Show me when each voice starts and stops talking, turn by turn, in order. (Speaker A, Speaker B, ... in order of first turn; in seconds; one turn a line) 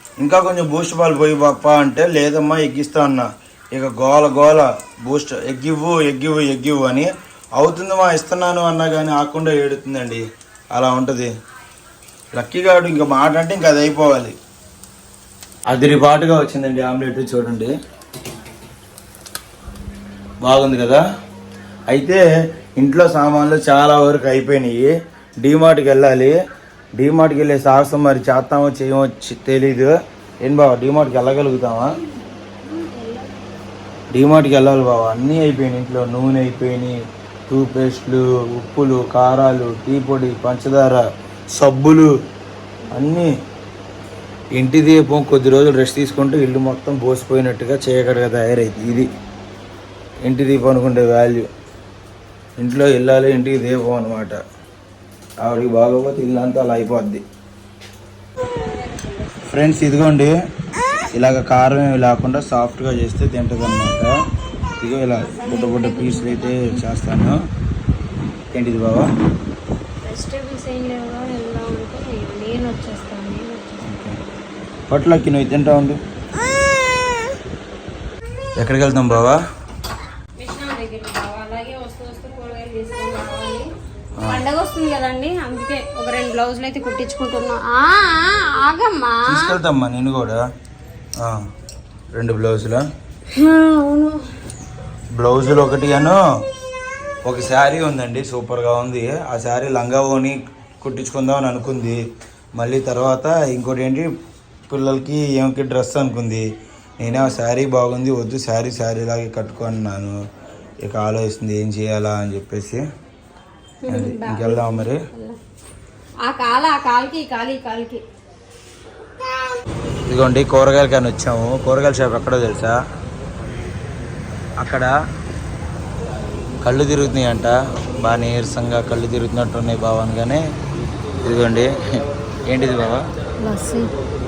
Speaker A: 0.2-11.3
Speaker A: 12.3-14.3
Speaker A: 15.7-17.7
Speaker A: 20.4-21.0
Speaker A: 21.9-22.2
Speaker A: 22.8-26.4
Speaker A: 27.0-29.9
Speaker A: 30.4-31.9
Speaker B: 32.5-33.5
Speaker A: 34.1-37.0
Speaker A: 37.5-41.0
Speaker A: 41.6-42.1
Speaker B: 42.9-43.1
Speaker A: 42.9-43.3
Speaker A: 44.6-49.1
Speaker A: 50.2-51.5
Speaker A: 52.6-54.4
Speaker A: 55.4-57.2
Speaker B: 58.5-59.2
Speaker A: 59.4-60.3
Speaker A: 61.1-64.1
Speaker A: 64.8-67.4
Speaker B: 65.2-66.9
Speaker A: 68.5-69.1
Speaker B: 70.0-74.0
Speaker A: 73.8-74.2
Speaker A: 74.9-76.0
Speaker A: 78.6-79.4
Speaker B: 80.4-83.7
Speaker B: 84.2-89.6
Speaker A: 89.2-90.4
Speaker A: 92.1-92.8
Speaker B: 93.3-94.2
Speaker A: 95.2-96.2
Speaker A: 97.3-102.0
Speaker A: 102.6-104.1
Speaker A: 104.7-106.5
Speaker A: 107.0-110.2
Speaker A: 110.8-112.8
Speaker B: 113.8-115.4
Speaker A: 113.9-115.0
Speaker B: 116.2-118.0
Speaker A: 120.1-122.8
Speaker A: 124.6-124.9
Speaker A: 126.6-130.4
Speaker A: 131.2-131.8
Speaker A: 132.5-133.1
Speaker B: 133.4-133.9